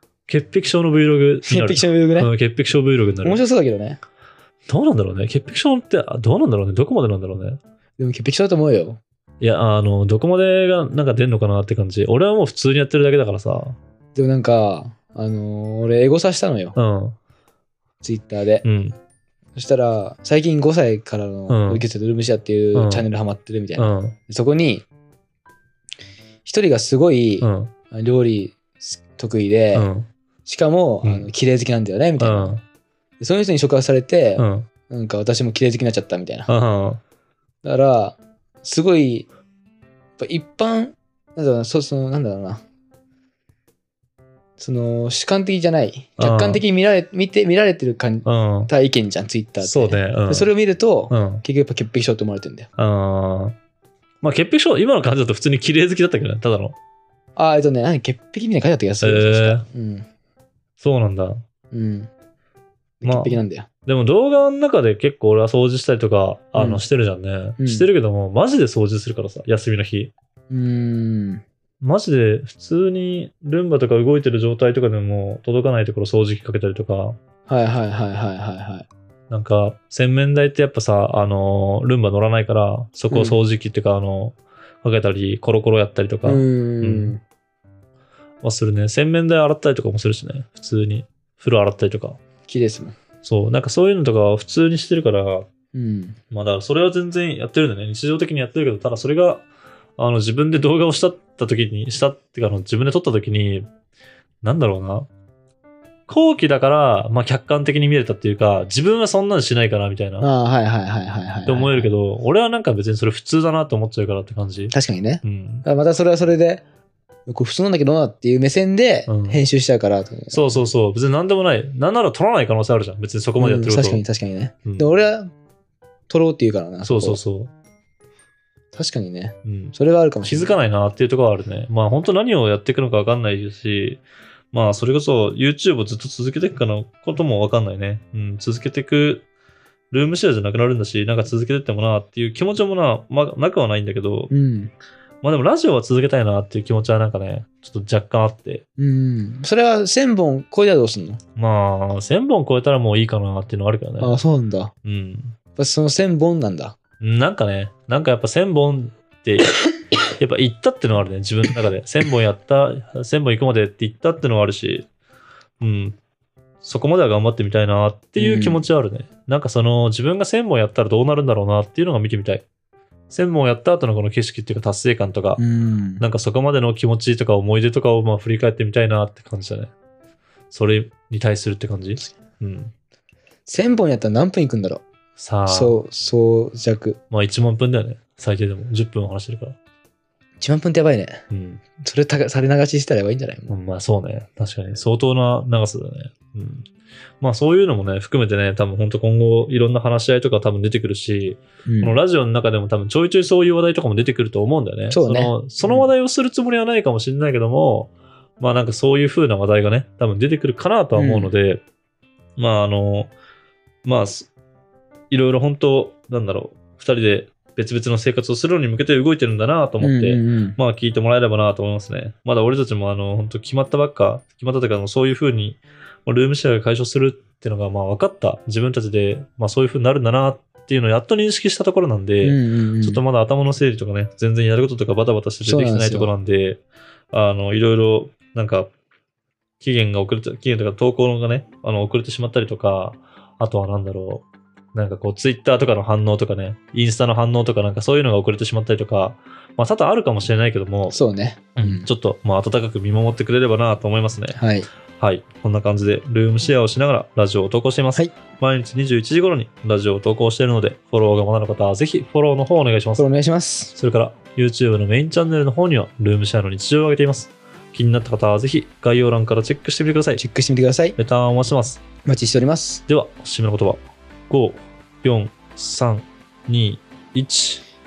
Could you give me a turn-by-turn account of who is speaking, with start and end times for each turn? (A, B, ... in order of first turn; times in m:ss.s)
0:00.3-0:03.4 A
0:01.4-0:02.3 B
0:03.2-0:04.0 B
0:04.7-0:07.6 A
0:08.0-0:09.0 B
0:09.4-0:13.8 A
0:14.1-0:16.8 B
0:16.7-0:17.2 A
0:18.0-0:18.6 B
0:18.6-0:19.0 A
0:19.5-0:24.9 B
0:21.5-0:21.8 A
0:22.7-0:23.0 A
0:23.8-0:24.2 A
0:26.4-0:29.9 B
0:27.4-0:27.7 A
0:29.7-0:30.1 A
0:30.4-0:32.6 B
0:32.2-0:32.6 A
0:33.2-0:36.5 B
0:34.4-0:34.7 A
0:36.5-0:37.0 A
0:37.6-0:39.3 B
0:40.2-0:42.6 B
0:44.6-0:52.7 B
0:46.2-0:46.6 A
0:48.2-0:48.7 A
0:49.6-0:50.5 A
0:51.1-0:51.4 A
0:52.8-0:53.5 A
0:54.2-0:56.8 A
0:57.4-1:00.0 B
0:59.0-0:59.6 A
1:00.8-1:01.4 A
1:01.7-1:02.1 B
1:03.0-1:03.7 B
1:03.0-1:10.1 A
1:06.5-1:06.8 B
1:07.6-1:07.8 B
1:10.5-1:11.4 B
1:11.8-1:17.2 A
1:17.5-1:18.9 B
1:19.3-1:27.2 A
1:23.1-1:23.4 B
1:26.2-1:27.2 B
1:28.4-1:32.2 A
1:32.5-1:33.0 B
1:33.2-1:35.5 A
1:35.7-1:36.2 B
1:36.3-1:39.4 A
1:40.0-1:43.7 A
1:44.4-1:45.1 A
1:46.1-1:50.3 A
1:50.2-1:51.9 B
1:51.4-1:55.6 A
1:54.7-1:56.6 B
1:57.3-2:00.6 B
1:59.1-1:59.4 A
2:00.3-2:04.0 A
2:03.4-2:05.3 B
2:06.1-2:07.2 B
2:06.8-2:07.5 A
2:08.7-2:10.5 B
2:09.4-2:19.2 A
2:19.9-2:24.3 A
2:24.3-2:24.7 B
2:25.2-2:28.6 A
2:28.8-2:31.2 B
2:31.4-2:34.2 A
2:34.0-2:34.7 B
2:34.8-2:35.4 A
2:35.6-2:36.8 B
2:37.0-2:39.5 A
2:40.2-2:44.8 A
2:45.6-2:46.0 A
2:46.6-2:52.4 A
2:48.2-2:48.6 B
2:53.1-2:55.4 A
2:55.4-2:56.0 B
2:56.0-2:59.7 A
3:00.5-3:02.7 A
3:03.4-3:04.8 B
3:05.2-3:05.8 A
3:05.5-3:07.0 B
3:07.1-3:09.6 A
3:10.4-3:11.2 B
3:11.3-3:11.6 A
3:11.8-3:13.5 B
3:13.5-3:16.6 A
3:17.2-3:31.6 A
3:21.6-3:22.0 B
3:24.9-3:25.9 B
3:30.9-3:31.3 B
3:32.4-3:33.1 A
3:33.8-3:34.3 A
3:35.1-3:56.6 A
3:39.8-3:40.6 B
3:52.2-3:53.0 B
3:55.4-3:56.1 B
3:57.1-3:58.7 A
3:59.6-4:11.0 A
4:10.9-4:11.9 B
4:11.6-4:14.4 A
4:14.3-4:14.7 B
4:15.0-4:23.0 A
4:23.0-4:23.7 B
4:23.7-4:30.2 A
4:30.2-4:31.0 B
4:31.0-4:31.8 A
4:32.0-4:32.8 B
4:32.9-4:37.6 A